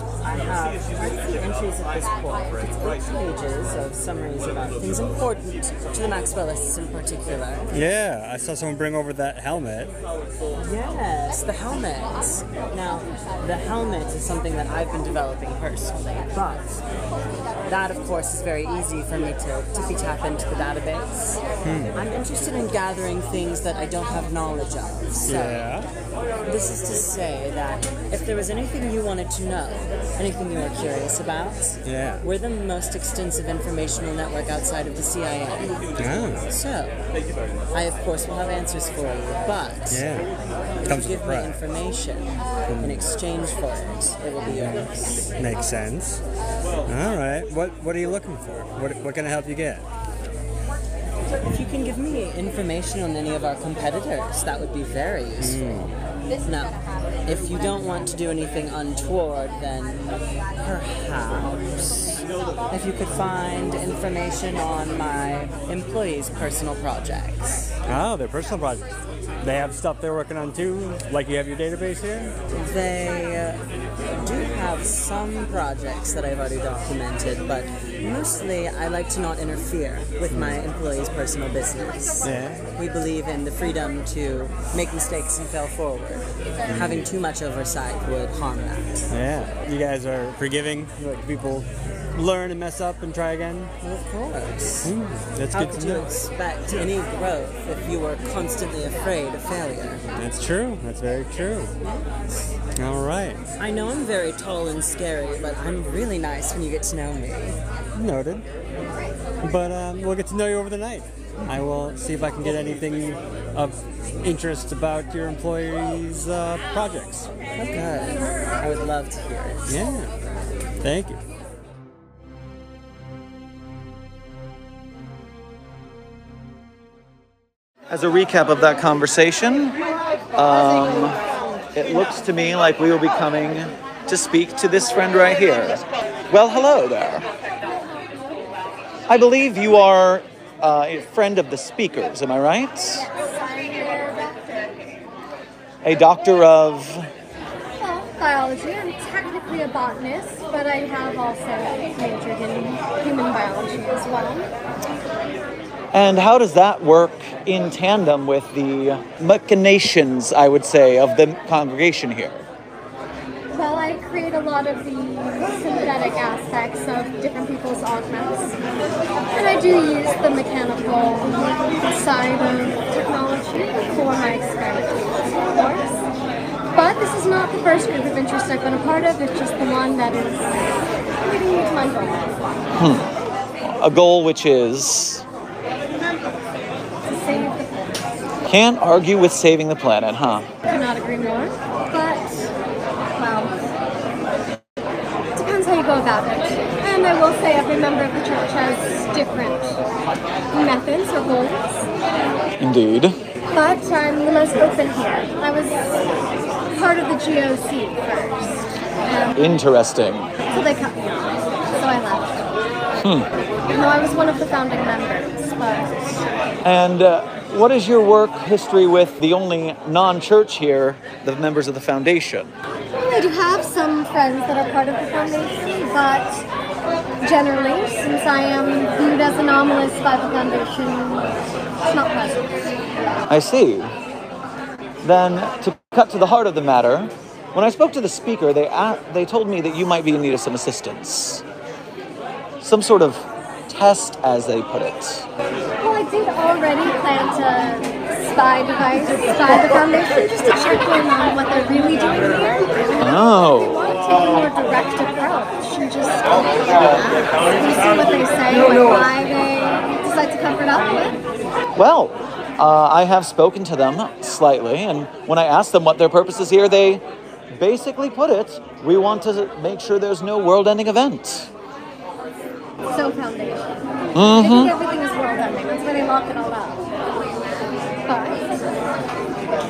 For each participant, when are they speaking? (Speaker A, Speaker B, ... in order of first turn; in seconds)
Speaker A: 0.2-7.8, 10.6-16.8, 17.6-21.4, 21.9-25.7, 26.4-37.0, 37.7-40.1, 40.8-45.3, 51.5-60.0, 60.6-62.1, 62.7-67.7, 72.5-89.1, 93.8-94.9, 95.5-100.0, 101.8-102.1, 103.6-107.6, 117.5-119.8
Speaker B: 7.7-9.9, 21.6-22.0, 25.2-25.9, 31.8-32.2, 36.0-36.4, 39.9-40.3, 40.8-41.6, 42.7-43.0, 44.5-44.8, 45.4-46.2, 46.9-49.8, 55.4-55.9, 67.9-68.8, 69.4-72.3, 80.3-80.6, 82.2-82.6, 86.7-87.0, 89.1-93.7, 94.8-96.1, 100.2-101.7, 102.8-103.4, 107.9-108.4, 109.4-117.3, 119.7-120.1, 120.8-121.2
Speaker C: 127.9-129.8, 130.3-131.2, 131.7-137.2, 139.1-143.1, 145.8-147.1, 155.9-162.4, 182.8-183.1, 183.6-185.2, 188.5-190.5, 202.6-203.2, 209.3-210.3, 213.0-213.3, 216.6-222.5, 233.3-233.9, 235.0-241.4, 242.6-245.3, 253.0-253.8, 261.8-271.5, 274.1-274.7
Speaker D: 137.7-138.4, 142.9-144.8, 147.8-154.5, 163.5-168.6, 169.3-176.0, 176.7-180.6, 181.2-182.4, 187.1-187.9, 190.7-192.3, 193.1-193.6, 195.3-199.8, 200.5-201.8, 203.5-206.1, 206.7-209.5, 210.4-212.5, 213.7-216.2, 222.9-226.5, 227.2-231.3, 231.8-232.6, 245.8-261.2, 272.9-276.8, 278.1-278.5